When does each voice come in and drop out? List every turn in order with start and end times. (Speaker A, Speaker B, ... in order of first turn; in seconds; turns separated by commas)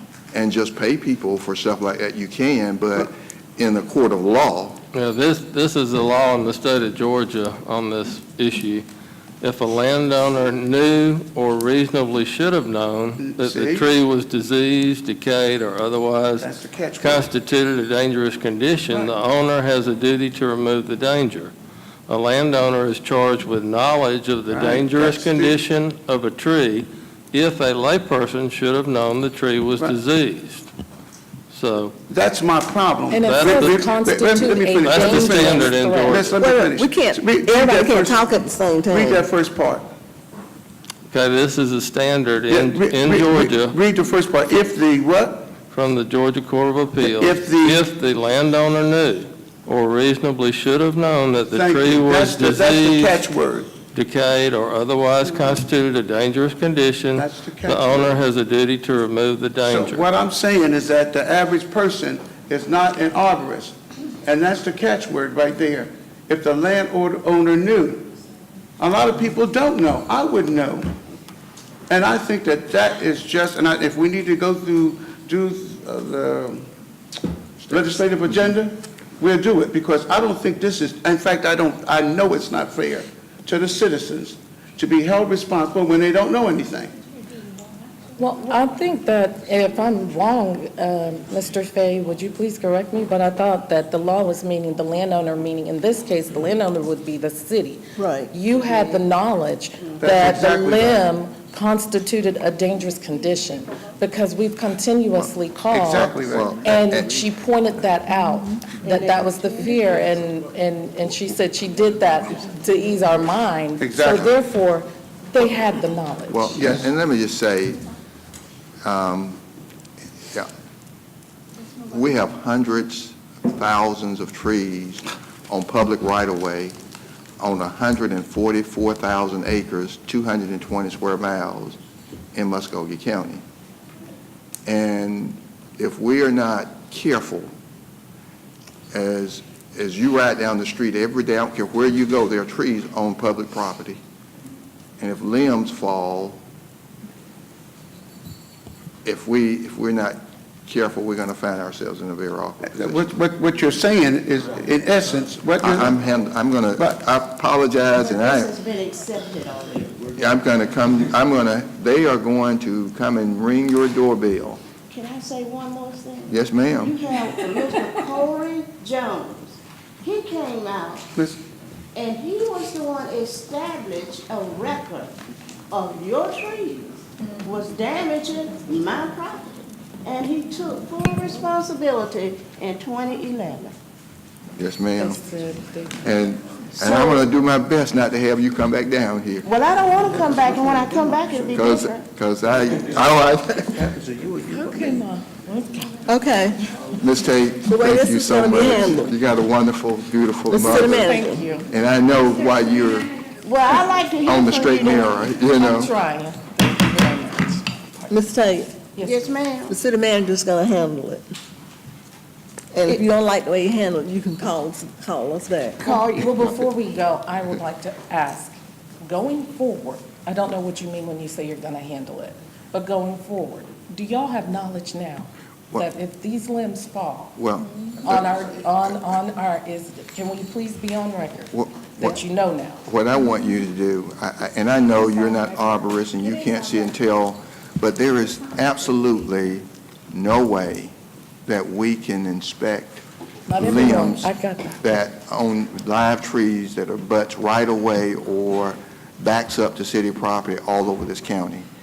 Speaker A: 0.3-4.8, Speaker B: 4.9-8.8, Speaker B: 9.4-21.5, Speaker C: 13.2-13.9, Speaker C: 16.4-17.3, Speaker B: 22.1-30.7, Speaker C: 24.5-25.6, Speaker B: 31.5-31.9, Speaker C: 32.1-38.3, Speaker D: 33.1-36.2, Speaker B: 33.2-33.9, Speaker B: 34.8-36.4, Speaker E: 36.4-39.2, Speaker D: 37.5-37.9, Speaker C: 38.9-39.9, Speaker B: 41.1-43.8, Speaker C: 42.5-45.5, Speaker B: 45.7-53.3, Speaker C: 47.0-47.9, Speaker C: 51.5-53.8, Speaker B: 53.9-60.1, Speaker C: 57.2-58.2, Speaker C: 59.6-68.1, Speaker C: 68.8-70.9, Speaker C: 71.9-76.7, Speaker C: 77.6-86.9, Speaker D: 88.2-116.6, Speaker E: 98.0-98.3, Speaker C: 100.0-101.0, Speaker C: 105.7-106.6, Speaker A: 106.3-107.2, Speaker F: 108.9-109.5, Speaker C: 113.8-114.4, Speaker A: 116.3-117.8, Speaker A: 118.8-119.4, Speaker A: 121.9-126.8, Speaker A: 127.4-131.8, Speaker A: 132.3-133.4, Speaker A: 134.7-137.5, Speaker A: 138.9-144.0, Speaker A: 145.0-146.4, Speaker A: 149.1-153.1, Speaker C: 152.7-155.9, Speaker A: 155.6-158.5, Speaker F: 157.9-160.2, Speaker A: 160.2-164.6, Speaker F: 164.9-171.1, Speaker A: 166.3-166.9, Speaker F: 171.9-175.1, Speaker F: 175.7-183.7, Speaker A: 184.6-185.2, Speaker D: 185.0-186.2, Speaker A: 186.0-189.5, Speaker F: 186.8-187.2, Speaker F: 189.4-192.1, Speaker A: 191.5-193.9, Speaker C: 193.8-195.0, Speaker D: 194.4-196.0, Speaker E: 196.1-196.6, Speaker A: 197.0-203.1, Speaker E: 197.7-199.2, Speaker E: 200.5-201.4, Speaker D: 200.8-201.7, Speaker F: 203.4-205.2, Speaker A: 204.2-205.9, Speaker D: 205.4-207.7, Speaker E: 208.1-208.9, Speaker D: 208.9-209.3, Speaker F: 209.0-209.8, Speaker E: 209.7-211.2, Speaker E: 212.7-215.8, Speaker D: 215.8-227.4, Speaker A: 227.4-228.3, Speaker D: 228.0-232.8, Speaker A: 231.5-232.2, Speaker A: 232.8-240.9, Speaker A: 241.5-243.0, Speaker D: 243.5-244.8, Speaker A: 243.6-251.7